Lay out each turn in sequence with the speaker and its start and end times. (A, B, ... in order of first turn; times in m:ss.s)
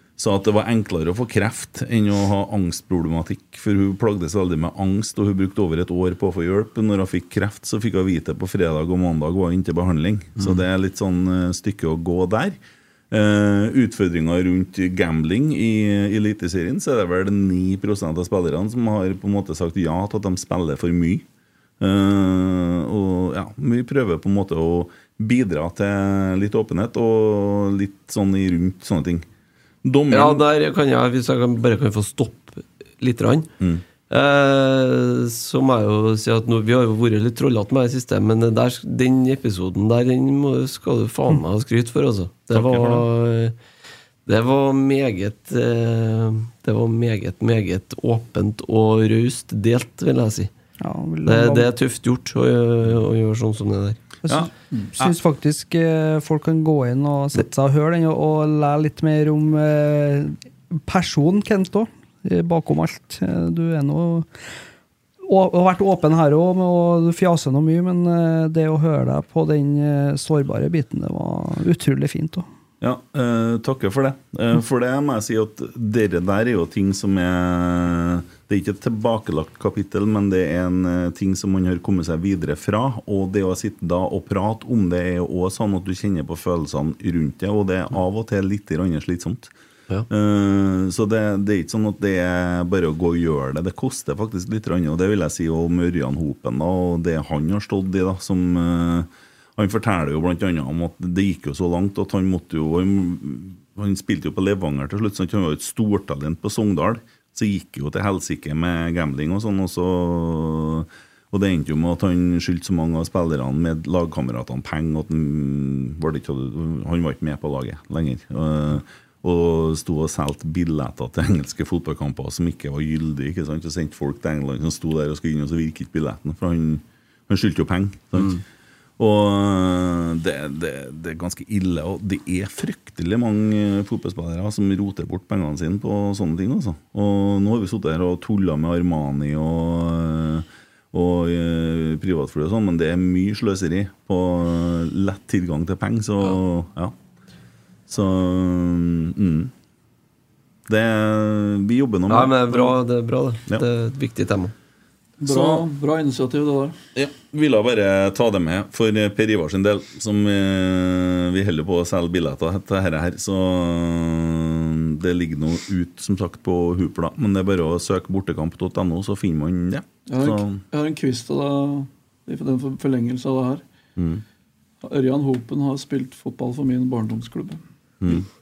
0:00.2-0:12.6 A
0:13.1-0:21.2 A
0:21.8-0:29.2 A
0:29.8-0:30.4 A
0:30.1-0:33.5 B
0:34.1-0:43.6 B
0:42.5-0:43.0 A
0:44.2-0:50.5 B
0:50.8-0:51.7 C
0:51.2-0:54.0 B
0:54.2-1:04.3 C
0:54.2-0:55.2 A
1:05.2-1:12.4 C
1:12.8-1:29.5 A
1:30.1-2:08.4 A
2:09.0-2:26.9 A
2:27.9-2:29.5 A
2:30.7-2:32.7 A
2:32.1-2:34.5 B
2:35.2-2:36.8 D
2:35.2-2:35.6 A
2:36.9-2:50.6 A
2:50.1-2:53.6 D
2:54.0-2:54.2 A
2:54.8-2:57.6 D